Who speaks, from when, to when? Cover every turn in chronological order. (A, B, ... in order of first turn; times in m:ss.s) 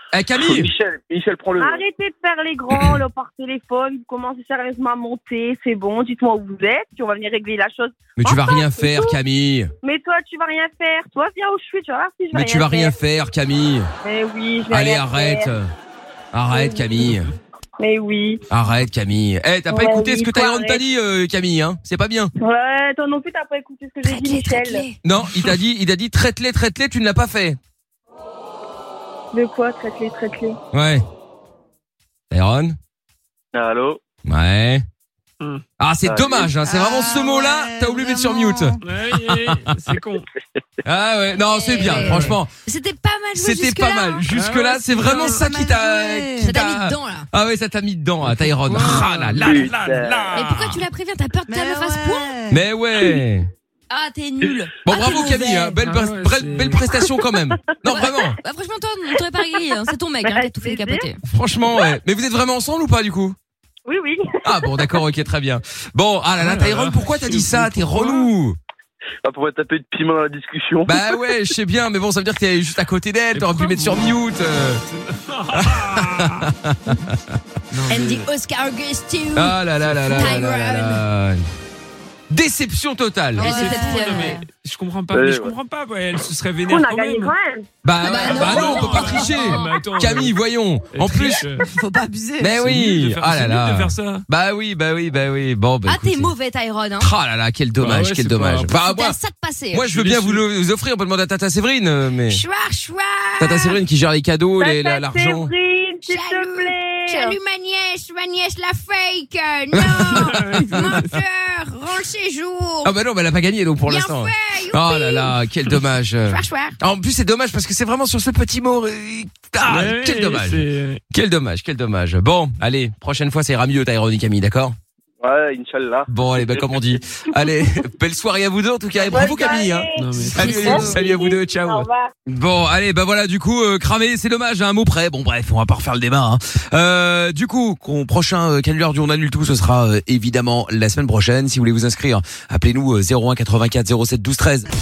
0:00.1-0:00.7 A
0:00.4-0:01.8 B
0:01.6-0:09.2 C
0:08.2-0:09.7 A
0:09.8-0:13.0 C
0:12.3-0:13.9 A
0:14.0-0:15.5 C
0:14.7-0:15.7 A
0:16.3-0:17.3 A
0:16.5-0:16.8 C
0:17.8-0:18.4 C
0:18.5-0:22.3 A
0:19.7-0:20.8 C
0:22.4-0:24.8 C
0:24.0-0:25.0 D
0:25.0-0:27.6 A
0:29.3-0:30.6 C
0:30.7-0:31.0 A
0:32.3-0:32.8 A
0:33.5-0:34.0 B
0:34.2-0:34.8 A
0:35.8-0:38.8 A
0:36.0-0:36.5 B
0:36.7-0:38.8 E
0:38.8-0:40.3 F
0:39.3-0:39.6 A
0:40.8-0:42.5 A
0:41.4-0:44.3 D
0:42.0-0:42.4 F
0:43.3-0:50.8 A
0:44.3-0:45.4 F
0:45.0-0:45.5 D
0:45.6-0:46.5 E
0:46.4-0:47.2 D
0:48.3-0:50.6 F
0:48.6-0:49.0 D
0:49.4-0:50.4 B
0:50.3-0:52.5 D
0:51.5-0:52.3 E
0:52.5-0:53.5 A
0:53.9-0:55.8 D
0:54.8-0:58.4 A
0:55.8-0:56.8 F
0:57.8-1:01.2 D
1:00.2-1:01.0 C
1:01.2-1:03.4 A
1:03.8-1:04.9 C
1:04.4-1:08.6 A
1:06.4-1:08.2 F
1:09.2-1:11.0 B
1:10.8-1:14.8 A
1:13.4-1:14.2 F
1:14.9-1:16.5 F
1:15.5-1:17.2 A
1:17.7-1:18.2 F
1:17.9-1:21.0 D
1:19.3-1:21.4 A
1:19.8-1:20.2 F
1:22.3-1:23.6 A
1:23.4-1:27.3 F
1:23.4-1:24.4 D
1:25.1-1:25.6 B
1:26.7-1:27.7 C
1:27.8-1:31.5 A
1:28.0-1:29.8 D
1:28.1-1:30.4 F
1:30.9-1:31.7 F
1:31.6-1:31.9 D
1:31.8-1:32.5 E
1:32.4-1:36.3 A
1:32.5-1:34.2 F
1:35.8-1:37.1 D
1:37.0-1:39.2 A
1:37.8-1:38.7 F
1:38.7-1:39.9 D
1:39.7-1:42.4 A
1:39.9-1:40.4 F
1:42.3-1:43.8 D
1:43.4-1:45.5 A
1:44.6-1:47.4 C
1:46.0-1:52.9 D
1:49.7-1:51.0 A
1:49.8-1:51.1 F
1:52.8-2:04.7 A
1:53.8-1:55.4 D
1:56.3-1:56.8 D
1:59.6-2:01.0 F
2:05.2-2:06.6 B
2:06.1-2:24.7 A
2:09.0-2:12.1 C
2:10.0-2:10.9 F
2:10.3-2:11.0 D